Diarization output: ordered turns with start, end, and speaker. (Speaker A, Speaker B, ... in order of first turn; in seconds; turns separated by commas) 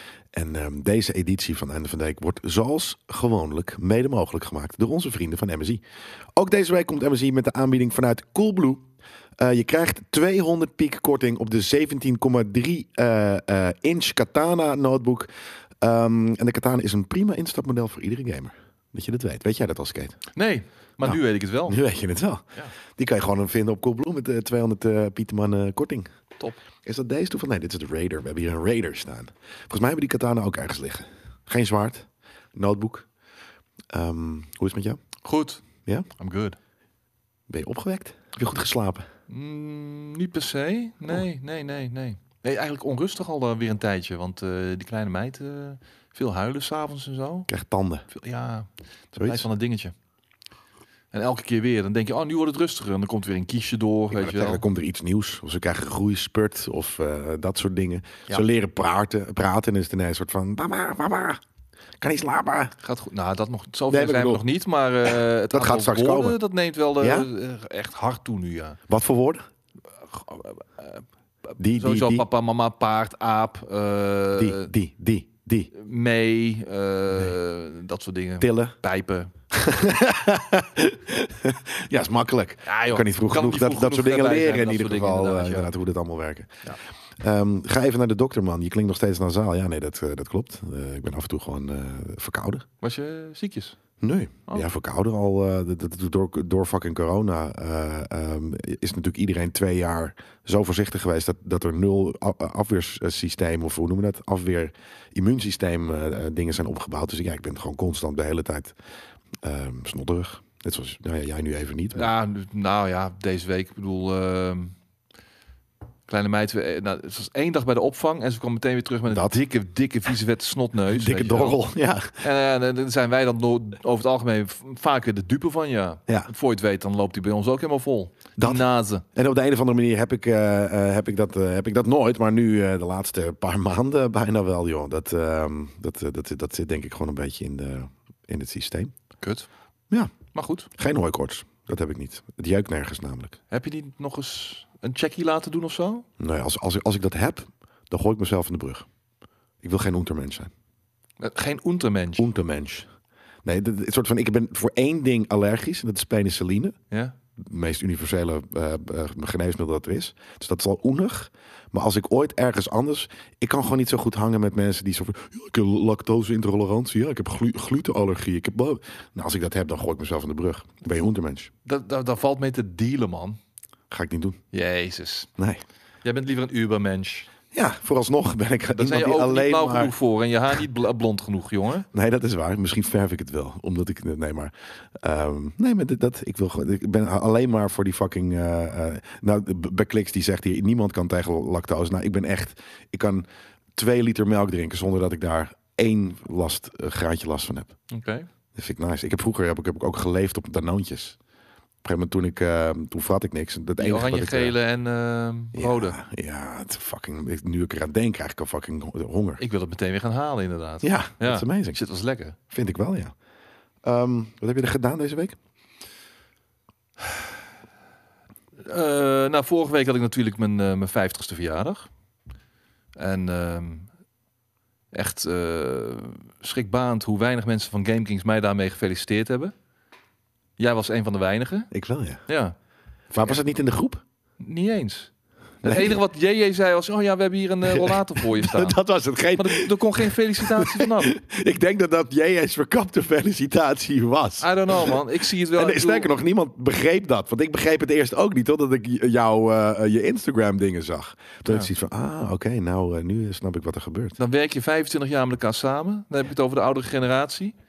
Speaker A: 0.3-5.8, Speaker A: 6.4-8.9, Speaker A: 9.4-15.3, Speaker A: 15.8-20.2, Speaker B: 20.4-21.8, Speaker A: 21.0-26.1, Speaker A: 26.9-33.1, Speaker A: 33.9-35.0, Speaker B: 35.2-35.6, Speaker B: 36.2-36.6, Speaker A: 37.5-39.1, Speaker B: 39.3-47.5, Speaker A: 47.5-48.0, Speaker B: 48.1-48.7, Speaker A: 49.1-49.5, Speaker B: 49.2-49.9, Speaker B: 51.1-54.6, Speaker A: 54.1-61.4, Speaker A: 62.0-62.7, Speaker B: 62.8-68.8, Speaker A: 63.9-64.4, Speaker A: 65.1-66.4, Speaker A: 67.0-67.3, Speaker A: 68.9-69.4, Speaker B: 70.0-71.0, Speaker A: 71.6-72.2, Speaker B: 71.7-74.7, Speaker A: 74.4-75.7, Speaker B: 75.7-79.3, Speaker A: 78.4-78.8, Speaker A: 79.5-92.7, Speaker B: 82.6-85.7, Speaker B: 92.8-93.8, Speaker A: 94.0-108.8, Speaker A: 109.4-112.1, Speaker B: 112.0-114.8, Speaker B: 116.1-121.6, Speaker A: 119.1-119.4, Speaker A: 120.9-122.2, Speaker B: 122.2-129.0, Speaker A: 128.4-138.9, Speaker B: 139.2-139.5, Speaker A: 139.9-140.2, Speaker B: 140.3-140.7, Speaker A: 140.7-143.4, Speaker B: 143.5-146.1, Speaker A: 146.2-148.9, Speaker A: 149.6-150.5, Speaker B: 151.2-152.3, Speaker A: 152.2-152.9, Speaker A: 153.4-156.8, Speaker A: 157.4-171.5, Speaker B: 171.7-173.4, Speaker A: 173.9-174.4, Speaker B: 174.5-175.3, Speaker A: 175.4-175.6, Speaker B: 176.0-177.3, Speaker A: 177.5-179.9, Speaker B: 178.7-181.9, Speaker A: 181.9-197.8, Speaker B: 197.9-198.3, Speaker A: 198.6-201.2, Speaker A: 201.8-204.6, Speaker B: 203.8-206.0, Speaker A: 205.6-209.4, Speaker B: 209.4-212.4, Speaker A: 210.8-211.8, Speaker A: 212.5-213.1, Speaker A: 213.8-215.4, Speaker B: 218.6-221.9, Speaker B: 223.0-223.9, Speaker B: 224.9-229.5, Speaker B: 230.6-231.7, Speaker A: 231.7-232.2, Speaker B: 232.3-232.6, Speaker A: 233.1-234.0, Speaker B: 234.4-235.1, Speaker A: 235.6-236.0, Speaker B: 235.6-238.8, Speaker A: 237.7-245.0, Speaker B: 239.3-241.1, Speaker B: 244.4-246.1, Speaker A: 245.5-254.2, Speaker B: 254.2-257.6